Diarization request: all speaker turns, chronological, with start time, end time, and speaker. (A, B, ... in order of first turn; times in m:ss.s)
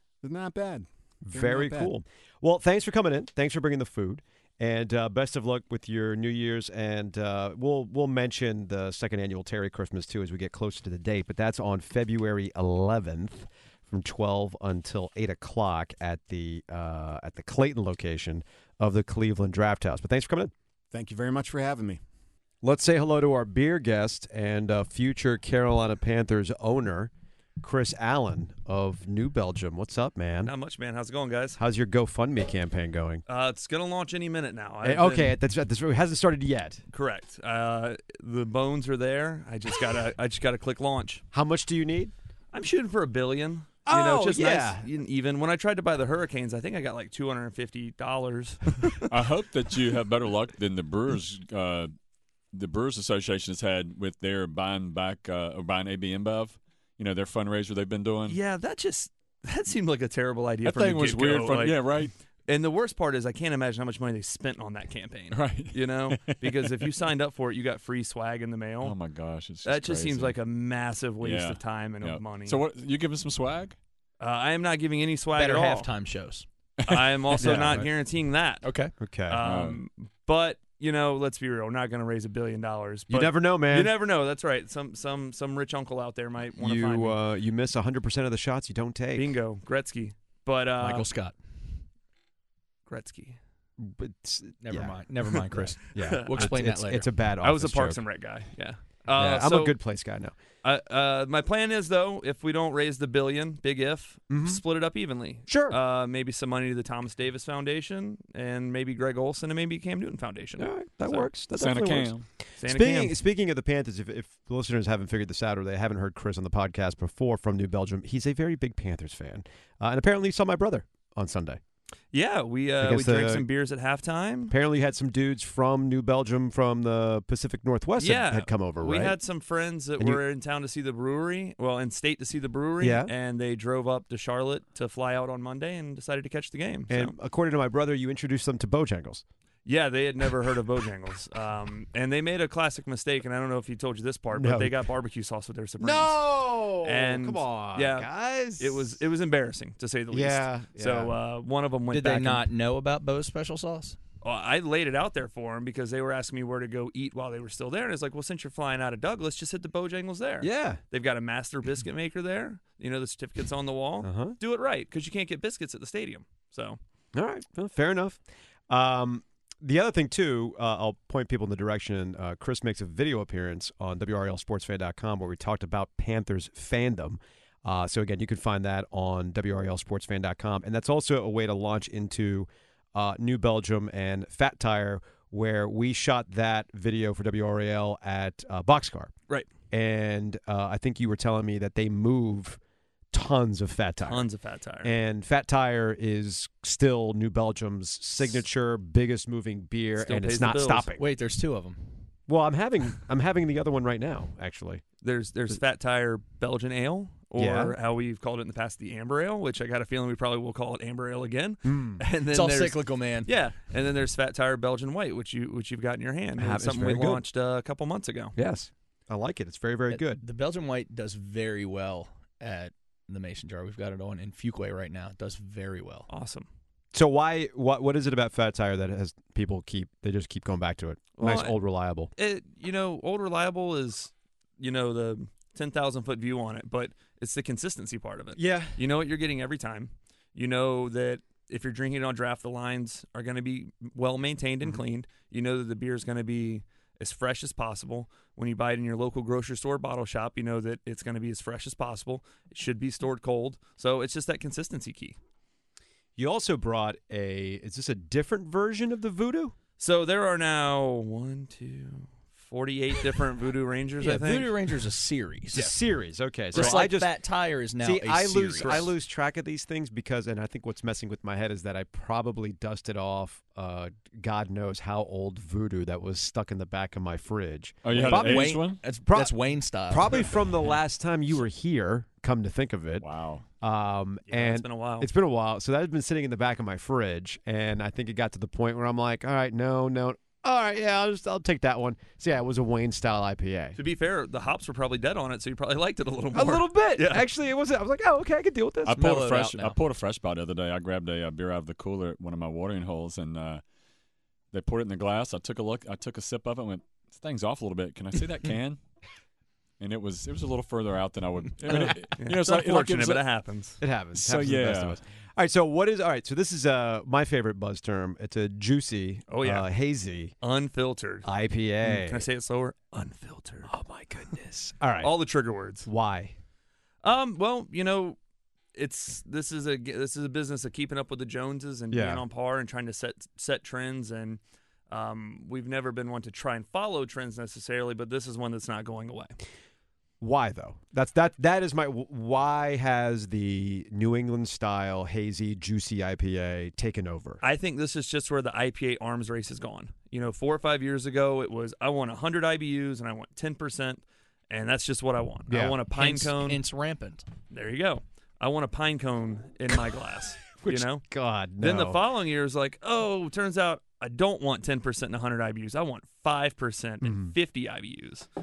0:00.2-0:01.9 A
0:01.2-0:20.5 B
0:20.9-0:22.0 A
0:22.6-0:30.5 B
0:30.4-0:31.6 C
0:31.6-0:33.2 B
0:33.3-0:35.4 C
0:34.8-0:36.8 B
0:36.9-0:41.2 C
0:41.3-0:42.1 B
0:42.5-0:49.1 C
0:43.9-0:44.9 B
0:49.1-0:51.9 D
0:52.5-0:58.4 D
0:58.3-1:01.8 C
1:00.6-1:02.1 D
1:02.5-1:09.0 C
1:05.3-1:06.9 D
1:08.8-1:10.4 D
1:09.6-1:12.6 C
1:11.2-1:13.8 D
1:14.2-1:15.9 C
1:15.3-1:16.4 E
1:16.8-1:17.7 D
1:16.8-1:18.6 C
1:17.4-1:17.9 B
1:18.6-1:18.9 E
1:19.0-1:19.4 B
1:19.3-1:27.2 C
1:19.4-1:19.8 D
1:23.1-1:23.9 B
1:26.6-1:29.3 B
1:29.1-1:31.1 C
1:30.8-1:31.4 E
1:32.9-1:33.4 C
1:33.8-1:35.0 B
1:34.6-1:37.1 E
1:35.5-1:38.0 B
1:36.0-1:36.6 C
1:37.4-1:39.8 C
1:39.2-1:40.4 B
1:40.6-1:51.3 C
1:44.3-1:44.6 B
1:45.5-1:45.8 B
1:50.6-2:01.6 B
1:51.5-1:52.2 D
1:52.6-1:53.2 C
2:02.1-2:04.5 C
2:02.8-2:03.4 B
2:04.5-2:09.2 B
2:08.0-2:17.1 C
2:12.8-2:13.1 B
2:16.9-2:19.2 B
2:19.6-2:32.4 C
2:24.3-2:24.7 B
2:25.8-2:29.0 B
2:30.1-2:31.1 B
2:31.9-2:34.0 E
2:34.2-2:46.8 C
2:40.4-2:40.8 B
2:44.0-2:44.4 B
2:47.1-3:09.1 B
3:09.7-3:12.6 B
3:13.1-3:14.3 B
3:14.0-3:14.9 C
3:14.8-3:21.0 B
3:20.0-3:20.9 C
3:21.0-3:22.0 E
3:22.3-3:24.8 B
3:25.0-3:38.3 C
3:27.4-3:27.8 B
3:31.6-3:32.0 B
3:32.3-3:33.3 E
3:36.4-3:37.2 B
3:38.4-3:40.2 B
3:39.9-3:46.1 E
3:46.1-3:46.4 C
3:46.9-3:52.1 B
3:51.2-3:51.6 C
3:52.2-4:15.2 C
3:58.4-3:58.8 B
4:16.2-4:19.6 B
4:19.8-4:24.5 C
4:24.0-4:25.8 E
4:25.5-4:27.1 B
4:26.5-4:28.9 E
4:26.6-4:26.9 C
4:27.8-4:39.3 B
4:28.6-4:28.9 C
4:37.8-4:38.8 D
4:37.9-4:40.3 E
4:39.9-4:43.1 B
4:43.0-4:43.4 D
4:43.6-4:53.8 B
4:44.3-4:45.1 C
4:53.8-4:57.2 C
4:56.3-4:59.0 B
4:58.8-5:03.6 D
4:58.9-4:59.8 E
5:04.5-5:08.8 D
5:09.8-5:13.2 D
5:11.8-5:13.8 C
5:13.8-5:20.3 B
5:14.1-5:15.0 D
5:19.3-5:19.6 C
5:20.4-5:21.3 C
5:21.2-5:22.2 B
5:21.8-5:23.7 C
5:23.6-5:25.1 B
5:25.0-5:25.9 C
5:25.8-5:26.3 B
5:27.0-5:28.2 C
5:28.7-5:39.3 C
5:31.9-5:32.2 B
5:40.2-5:47.4 B
5:47.4-5:56.6 C
5:55.5-5:55.8 B
5:55.9-5:57.2 E
5:57.5-6:01.0 C
6:00.6-6:02.0 B
6:01.6-6:08.3 C
6:07.0-6:07.3 B